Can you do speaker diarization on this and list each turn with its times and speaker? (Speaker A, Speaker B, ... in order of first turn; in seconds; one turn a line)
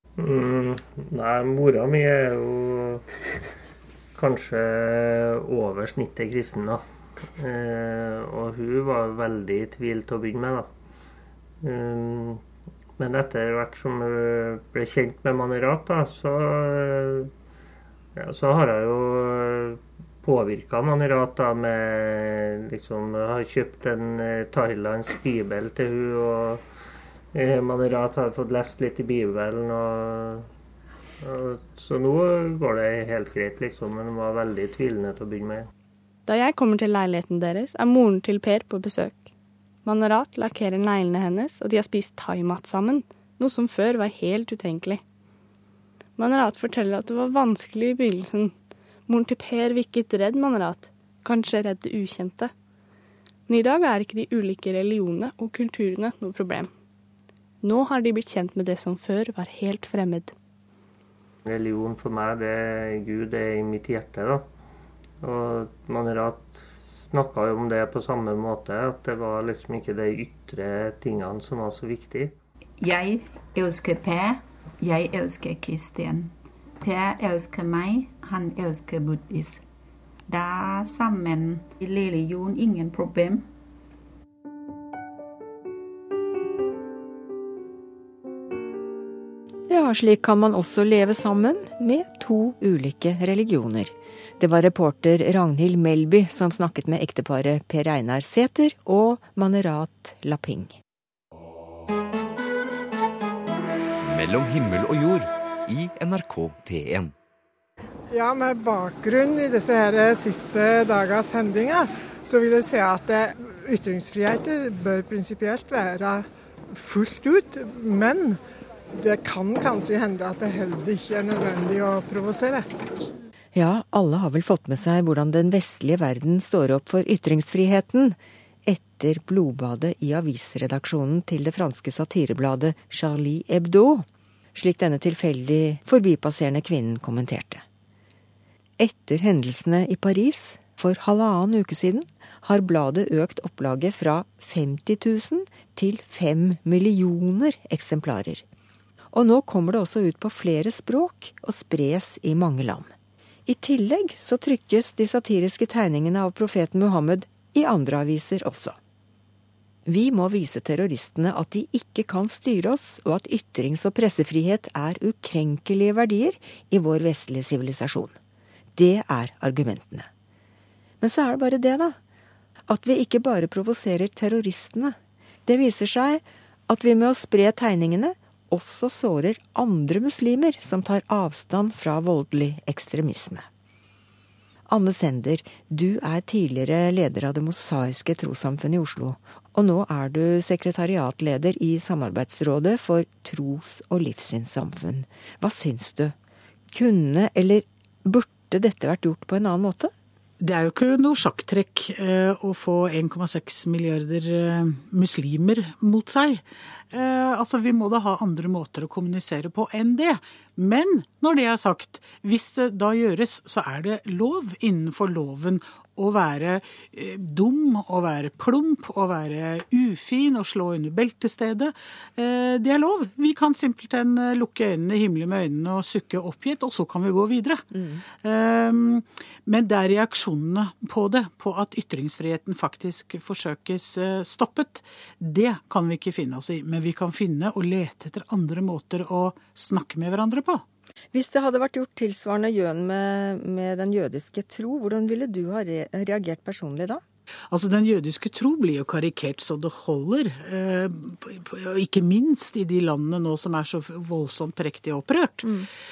Speaker A: 0.2-3.1
Speaker A: 4.2-10.7
Speaker A: 11.6-12.4
Speaker A: 13.0-17.3
Speaker A: 18.2-26.6
Speaker A: 27.3-30.5
Speaker A: 31.2-35.7
Speaker B: 36.3-39.3
Speaker B: 39.9-45.0
Speaker B: 46.2-48.5
Speaker B: 49.1-52.5
Speaker B: 53.5-56.7
Speaker B: 57.6-60.3
Speaker A: 61.5-64.5
Speaker A: 65.2-72.4
Speaker C: 72.8-79.6
Speaker C: 80.3-83.5
Speaker D: 89.7-100.8
Speaker E: 104.0-107.1
Speaker F: 108.1-118.4
Speaker F: 119.0-122.7
Speaker D: 123.5-137.6
Speaker D: 138.8-148.4
Speaker D: 149.1-152.9
Speaker D: 153.5-158.8
Speaker D: 159.9-168.2
Speaker D: 168.8-170.1
Speaker D: 171.0-172.0
Speaker D: 172.7-183.5
Speaker D: 184.7-196.2
Speaker D: 196.7-199.9
Speaker G: 200.4-227.7
Speaker D: 227.7-228.0
Speaker G: 228.2-240.6
Speaker D: 241.1-247.0
Speaker G: 247.5-255.5